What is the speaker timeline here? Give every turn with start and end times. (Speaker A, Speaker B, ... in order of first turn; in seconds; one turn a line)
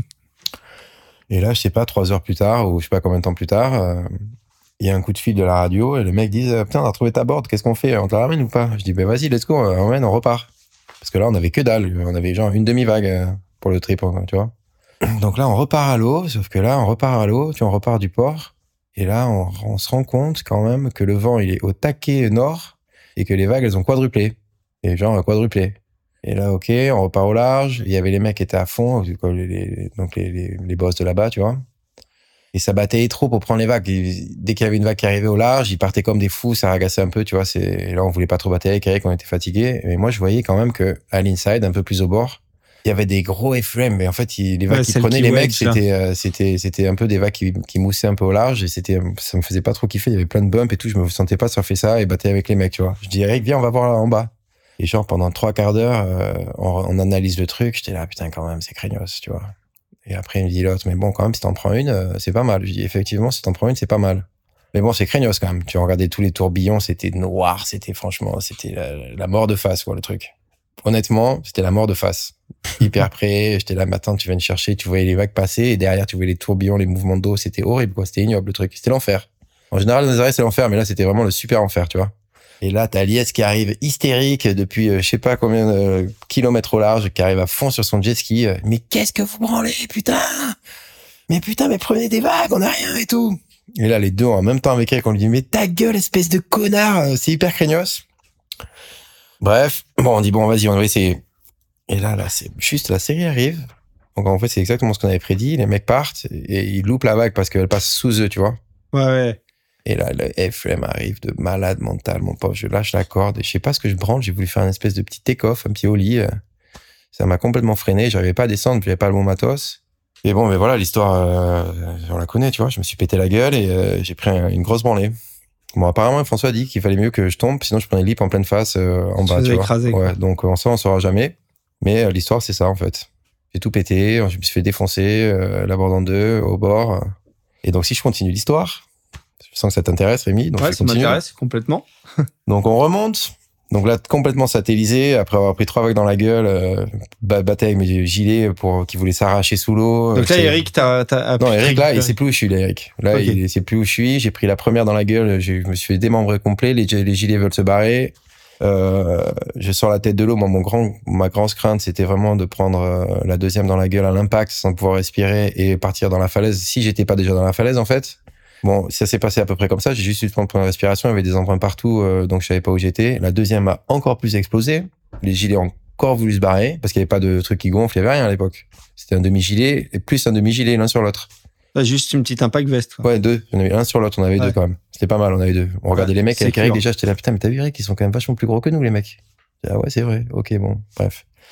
Speaker A: 1.3-4.1
Speaker A: 4.8-10.5
Speaker A: 11.0-14.5
Speaker A: 15.0-31.6
Speaker A: 32.5-59.5
Speaker B: 44.7-45.8
Speaker A: 60.1-90.5
Speaker A: 91.3-98.0
Speaker A: 99.4-101.2
Speaker A: 101.9-103.6
Speaker A: 104.1-108.6
Speaker B: 108.9-109.4
Speaker A: 109.8-116.3
Speaker A: 117.1-125.1
Speaker A: 125.7-137.0
Speaker B: 129.2-130.1
Speaker A: 137.6-138.8
Speaker A: 139.4-141.2
Speaker B: 140.6-141.9
Speaker A: 142.5-150.6
Speaker B: 150.1-152.1
Speaker A: 151.4-181.3
Speaker B: 153.1-153.4
Speaker B: 181.7-183.1
Speaker A: 183.0-191.2
Speaker B: 185.9-186.8